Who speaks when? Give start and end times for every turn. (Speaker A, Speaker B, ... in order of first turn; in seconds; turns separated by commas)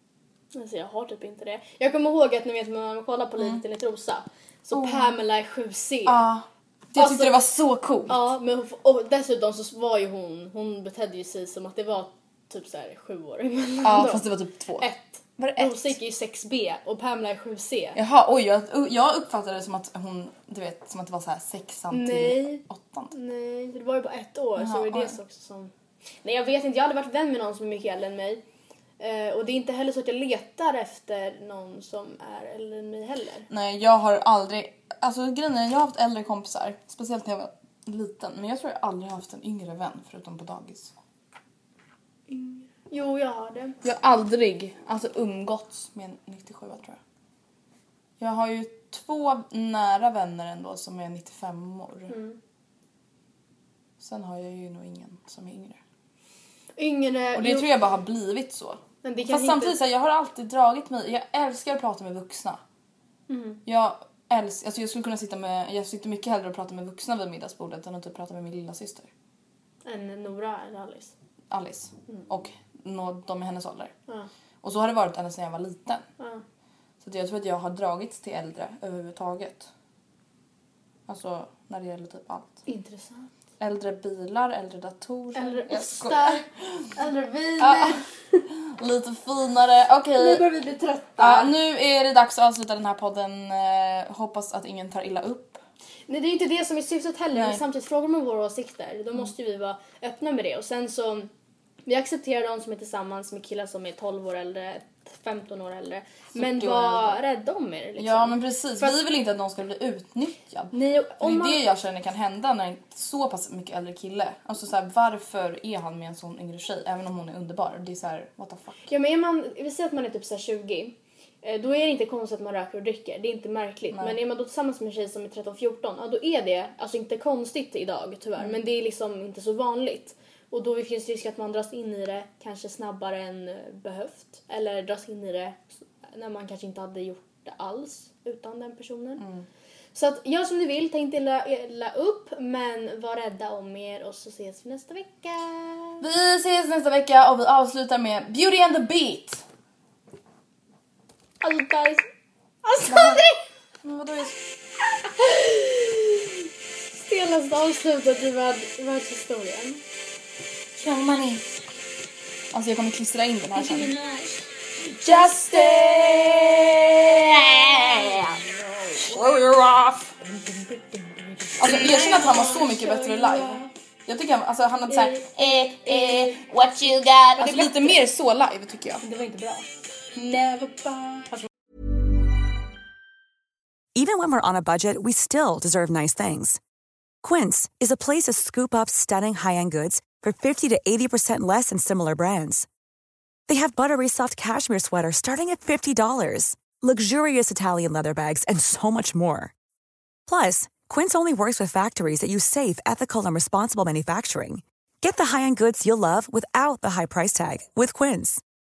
Speaker A: 0.5-6.2, Speaker B: 4.7-5.1, Speaker B: 6.0-8.2, Speaker A: 7.0-7.4, Speaker A: 8.1-18.0, Speaker B: 13.8-15.9, Speaker B: 17.9-23.1, Speaker A: 21.9-25.7, Speaker B: 24.6-25.2, Speaker A: 26.2-28.4, Speaker A: 29.0-33.5, Speaker B: 33.5-40.9, Speaker A: 42.3-43.8, Speaker B: 43.8-47.0, Speaker B: 48.2-52.1, Speaker A: 52.1-52.4, Speaker B: 54.0-55.8, Speaker A: 56.8-57.7, Speaker B: 57.3-62.6, Speaker A: 59.0-59.8, Speaker A: 63.3-63.6, Speaker B: 63.6-69.1, Speaker A: 69.8-71.1, Speaker B: 71.5-73.9, Speaker B: 74.6-76.0, Speaker B: 77.0-79.7, Speaker B: 81.1-82.6, Speaker A: 82.7-83.3, Speaker B: 83.6-86.9, Speaker A: 85.3-88.4, Speaker B: 87.6-90.5, Speaker A: 90.2-91.5, Speaker B: 91.2-95.6, Speaker A: 96.1-101.3, Speaker B: 97.3-97.6, Speaker A: 101.8-108.9, Speaker B: 106.3-107.2, Speaker B: 108.0-118.8, Speaker A: 110.7-111.6, Speaker A: 118.9-139.2, Speaker B: 139.2-139.4, Speaker A: 139.9-146.0, Speaker B: 146.0-149.4, Speaker A: 151.4-152.1, Speaker A: 152.6-153.4, Speaker B: 152.8-153.2, Speaker B: 153.8-154.4, Speaker A: 155.2-156.3, Speaker A: 157.0-159.8, Speaker B: 160.8-161.4, Speaker B: 162.5-163.9, Speaker A: 163.5-166.4, Speaker B: 165.0-168.4, Speaker A: 167.8-168.3, Speaker B: 169.0-170.1, Speaker A: 170.2-173.7, Speaker B: 171.6-179.0, Speaker A: 174.9-176.5, Speaker A: 177.4-178.0, Speaker A: 179.0-181.4, Speaker C: 183.9-186.6, Speaker C: 187.2-192.7, Speaker C: 193.5-199.5, Speaker C: 200.3-208.4